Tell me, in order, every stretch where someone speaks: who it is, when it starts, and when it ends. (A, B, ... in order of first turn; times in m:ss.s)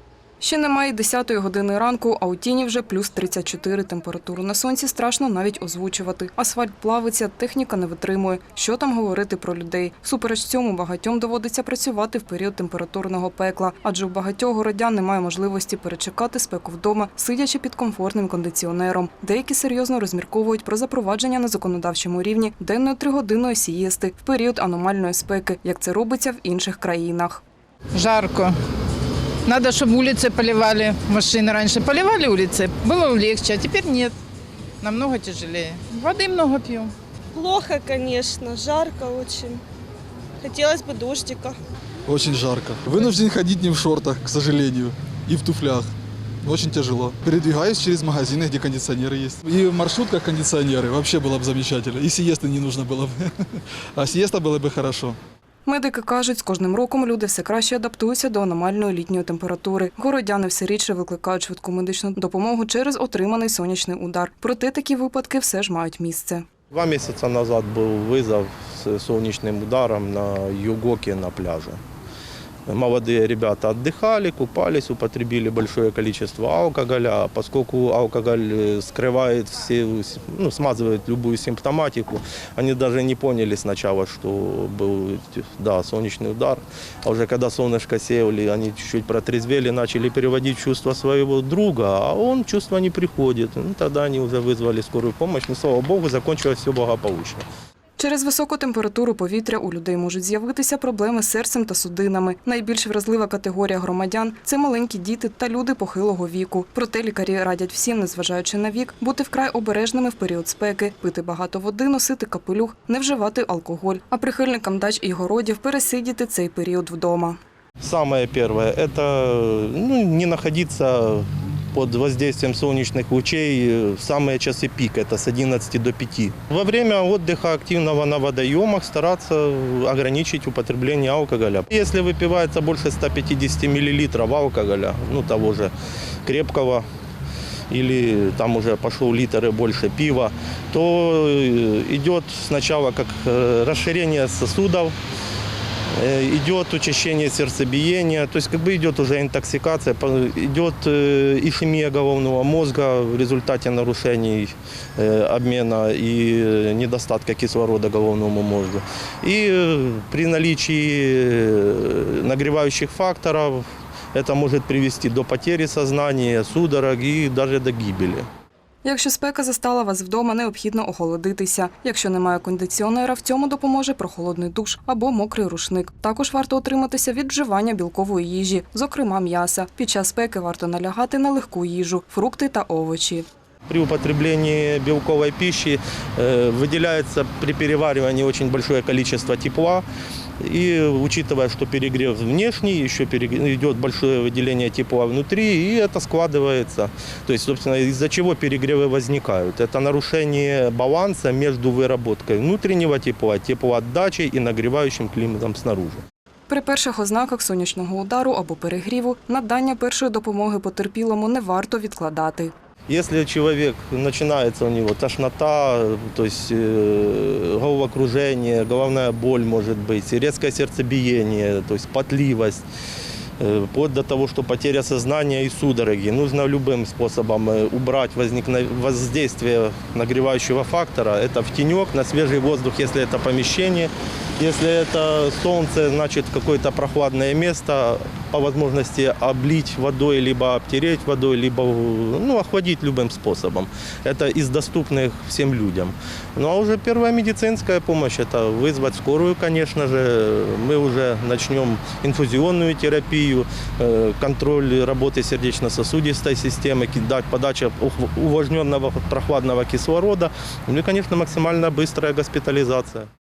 0:00.4-0:27.4 A
0:27.9-0:28.6 B
0:29.5-0:34.1 B
0:34.8-0:36.9 B
0:37.4-0:39.6 C
0:40.4-0:41.5 C
0:42.1-0:45.9 D
0:46.4-0:53.2 D
0:54.0-0:55.2 D
0:55.7-1:06.5 A
1:06.7-1:11.8 E
1:12.7-1:37.5 E
1:38.0-1:57.4 A
1:57.8-2:15.7 E
2:16.2-2:16.9 E
2:17.7-2:24.9 E
2:26.0-2:48.3 E
2:48.8-3:03.3 A
3:03.7-3:09.8 E
3:10.4-3:26.0 E
3:26.5-3:32.5 A
3:32.9-3:42.6 E
3:43.4-4:23.1 E